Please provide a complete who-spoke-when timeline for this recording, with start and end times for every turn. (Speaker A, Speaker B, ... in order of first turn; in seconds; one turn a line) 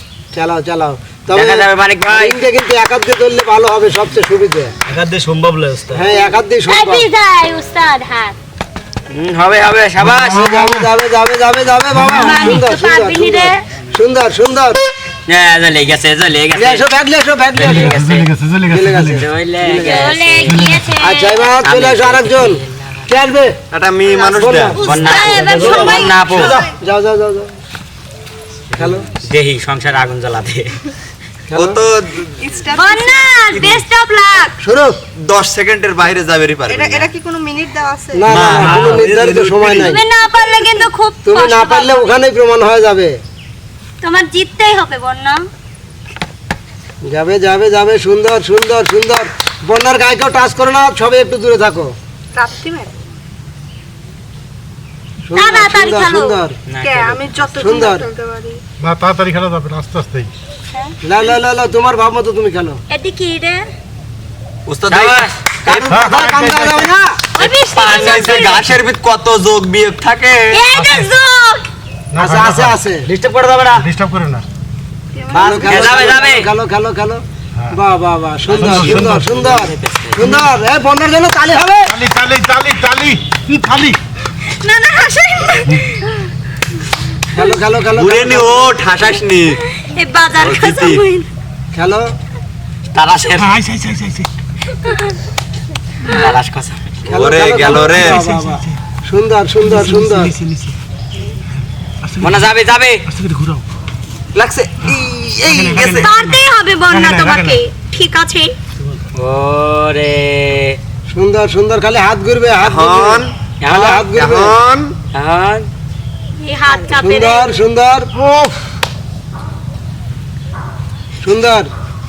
Speaker A: 0.3-4.7
Speaker B: 1.3-2.4
Speaker B: 4.9-6.1
Speaker A: 5.9-7.1
Speaker C: 6.7-8.4
Speaker B: 9.1-10.5
Speaker A: 10.2-14.8
Speaker C: 12.1-13.6
Speaker B: 15.3-16.9
Speaker A: 16.6-17.9
Speaker B: 17.5-18.3
Speaker D: 17.6-19.2
Speaker A: 18.7-20.2
Speaker B: 19.1-20.6
Speaker C: 19.8-21.5
Speaker D: 20.4-20.9
Speaker A: 21.0-23.6
Speaker B: 21.6-22.9
Speaker E: 23.7-24.8
Speaker F: 24.0-26.7
Speaker A: 24.4-27.5
Speaker B: 24.8-26.6
Speaker C: 24.9-26.1
Speaker A: 28.8-29.1
Speaker B: 28.8-30.8
Speaker A: 31.5-31.8
Speaker E: 31.6-32.5
Speaker F: 32.4-33.4
Speaker C: 32.7-34.5
Speaker E: 33.5-33.8
Speaker A: 34.6-35.0
Speaker E: 35.2-37.1
Speaker F: 36.7-38.3
Speaker A: 38.1-40.0
Speaker E: 38.3-39.3
Speaker B: 38.3-39.9
Speaker C: 39.8-42.1
Speaker A: 41.2-43.2
Speaker C: 44.0-45.4
Speaker A: 47.0-51.9
Speaker F: 52.4-52.9
Speaker A: 55.2-56.6
Speaker C: 55.4-56.4
Speaker B: 56.7-57.5
Speaker F: 56.8-58.6
Speaker A: 57.6-58.1
Speaker D: 58.8-60.3
Speaker A: 61.0-62.8
Speaker C: 62.9-63.6
Speaker E: 64.7-66.5
Speaker B: 64.9-65.5
Speaker A: 65.7-67.2
Speaker D: 65.9-66.9
Speaker C: 67.4-68.7
Speaker E: 67.7-70.7
Speaker B: 67.8-68.3
Speaker C: 70.5-71.7
Speaker D: 70.7-71.1
Speaker D: 72.2-72.8
Speaker A: 72.2-73.1
Speaker B: 73.1-73.9
Speaker D: 73.8-74.5
Speaker F: 75.2-75.9
Speaker A: 75.3-82.0
Speaker B: 75.4-76.5
Speaker B: 78.5-80.4
Speaker D: 78.5-79.2
Speaker D: 81.9-84.0
Speaker C: 84.5-86.0
Speaker A: 87.3-88.7
Speaker E: 87.9-89.6
Speaker C: 89.8-91.3
Speaker E: 90.4-91.0
Speaker A: 91.7-92.1
Speaker B: 92.9-93.6
Speaker D: 93.4-94.3
Speaker B: 96.1-96.9
Speaker A: 97.1-100.4
Speaker E: 97.1-98.3
Speaker D: 98.0-98.7
Speaker D: 99.7-100.8
Speaker D: 102.0-102.5
Speaker B: 102.2-103.0
Speaker D: 103.1-103.6
Speaker E: 104.3-106.1
Speaker D: 105.4-107.6
Speaker C: 105.8-108.5
Speaker B: 109.2-110.8
Speaker A: 111.1-113.2
Speaker E: 112.6-115.0
Speaker B: 113.6-114.0
Speaker A: 113.8-114.6
Speaker B: 115.1-115.7
Speaker C: 116.4-117.6
Speaker A: 116.9-118.1
Speaker A: 121.2-121.7